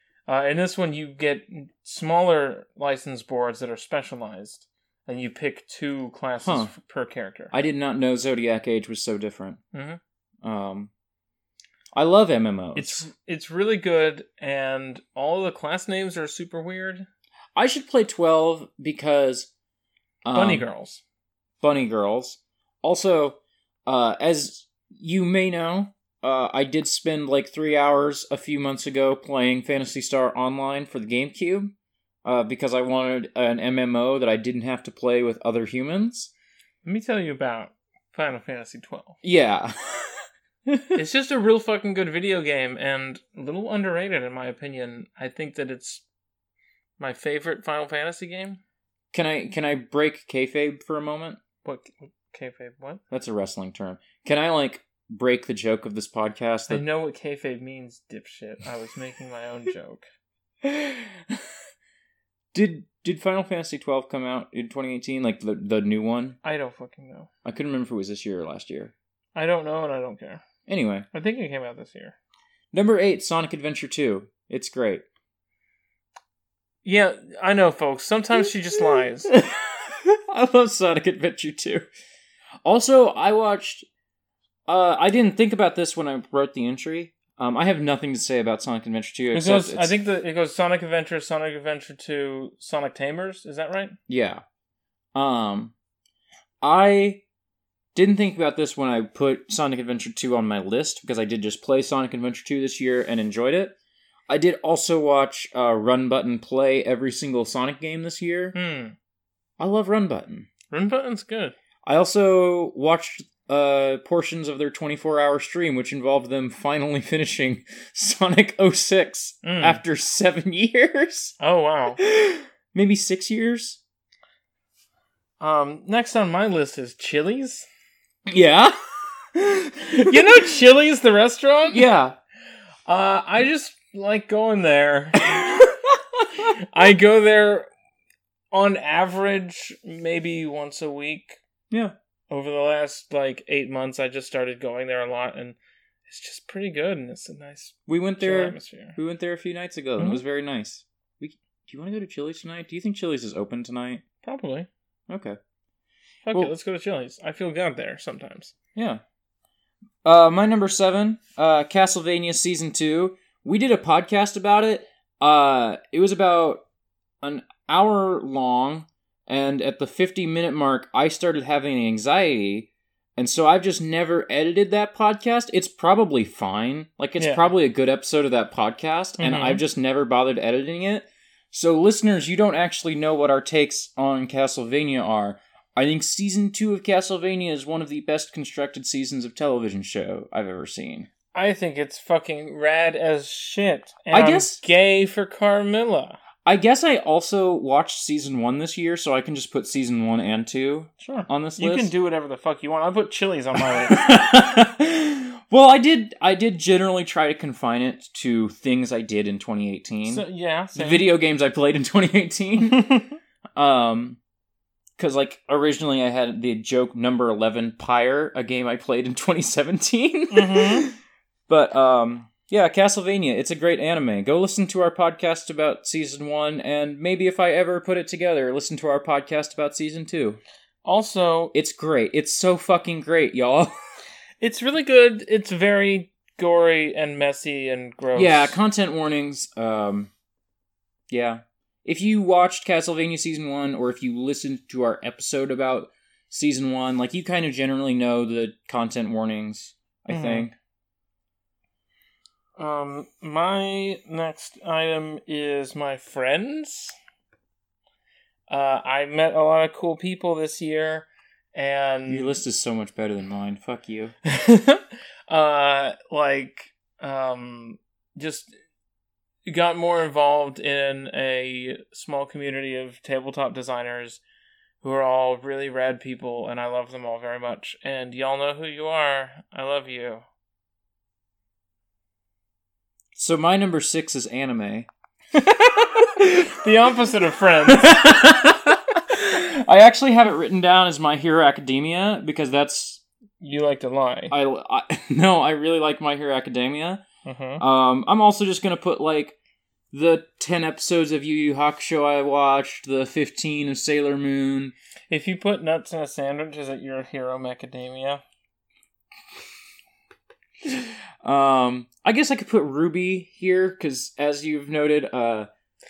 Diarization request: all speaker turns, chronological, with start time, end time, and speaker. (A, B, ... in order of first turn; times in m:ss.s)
0:00.3-0:07.5 A
0:06.4-0:06.7 B
0:07.5-0:09.6 B
0:09.7-0:10.0 A
0:10.4-0:10.9 B
0:12.0-0:13.1 B
0:12.8-0:17.1 A
0:17.6-0:19.5 B
0:20.2-0:20.7 B
0:20.3-0:21.0 A
0:21.6-0:31.7 B
0:32.2-0:36.3 B
0:36.8-0:39.2 A
0:39.2-0:41.0 B
0:41.0-0:46.0 A
0:47.0-0:48.6 A
0:49.1-0:51.4 B
0:51.6-0:53.0 A
0:53.1-0:56.8 B
0:56.7-1:00.1 A
1:00.6-1:01.4 B
1:02.5-1:06.4 B
1:06.4-1:07.3 A
1:07.4-1:08.9 B
1:09.4-1:10.4 A
1:10.7-1:11.1 B
1:11.1-1:12.2 A
1:12.7-1:15.0 B
1:16.8-1:19.3 A
1:19.0-1:21.9 B
1:22.6-1:23.9 B
1:24.7-1:30.0 B
1:29.3-1:34.0 A
1:34.1-1:34.4 B
1:35.2-1:35.7 B
1:36.6-1:37.2 B
1:38.0-1:43.8 B
1:44.3-1:48.6 B
1:48.5-1:49.0 A
1:49.6-1:50.5 B
1:50.7-1:51.6 A
1:51.8-2:01.4 B
1:59.4-1:59.8 A
2:01.4-2:02.0 A
2:02.0-2:03.8 B
2:05.4-2:07.7 A
2:08.3-2:08.8 B
2:09.3-2:10.5 B
2:10.0-2:11.9 A
2:11.7-2:12.2 B
2:12.9-2:15.5 A
2:15.3-2:15.8 B
2:16.6-2:17.7 A
2:18.5-2:21.4 A
2:21.7-2:22.0 B
2:22.3-2:29.0 A
2:27.9-2:34.0 B
2:34.2-2:34.7 A
2:35.1-2:35.4 B
2:36.3-2:38.5 A
2:38.8-2:39.0 B
2:40.0-2:46.6 B
2:47.2-3:11.1 B
2:57.2-2:57.5 A
2:59.2-2:59.6 A
3:11.3-3:16.2 A
3:14.1-3:14.6 B
3:16.4-3:21.9 B
3:21.0-3:24.0 A
3:23.9-3:32.9 B
3:30.1-3:31.1 A
3:32.7-3:33.1 A
3:33.6-3:34.2 B
3:35.0-3:41.0 B
3:40.3-3:40.9 A
3:41.5-3:50.4 B
3:50.8-3:51.5 A
3:51.5-3:53.7 B
3:54.4-3:58.6 A
3:58.2-4:00.1 B
4:01.1-4:10.6 B
4:10.1-4:10.5 A
4:12.6-4:17.0 A
4:18.5-4:22.4 A
4:22.1-4:24.1 B
4:24.2-4:28.5 A
4:29.5-4:34.2 A
4:34.8-4:40.2 A
4:43.1-4:44.9 B
4:45.5-4:48.0 A
4:46.0-4:46.5 B
4:47.7-4:53.0 B
4:53.4-4:54.4 A
4:54.3-4:57.0 B
4:57.2-4:57.6 A
4:57.6-4:59.4 B
4:59.9-5:04.7 B
5:05.1-5:08.2 A
5:10.6-5:15.5 B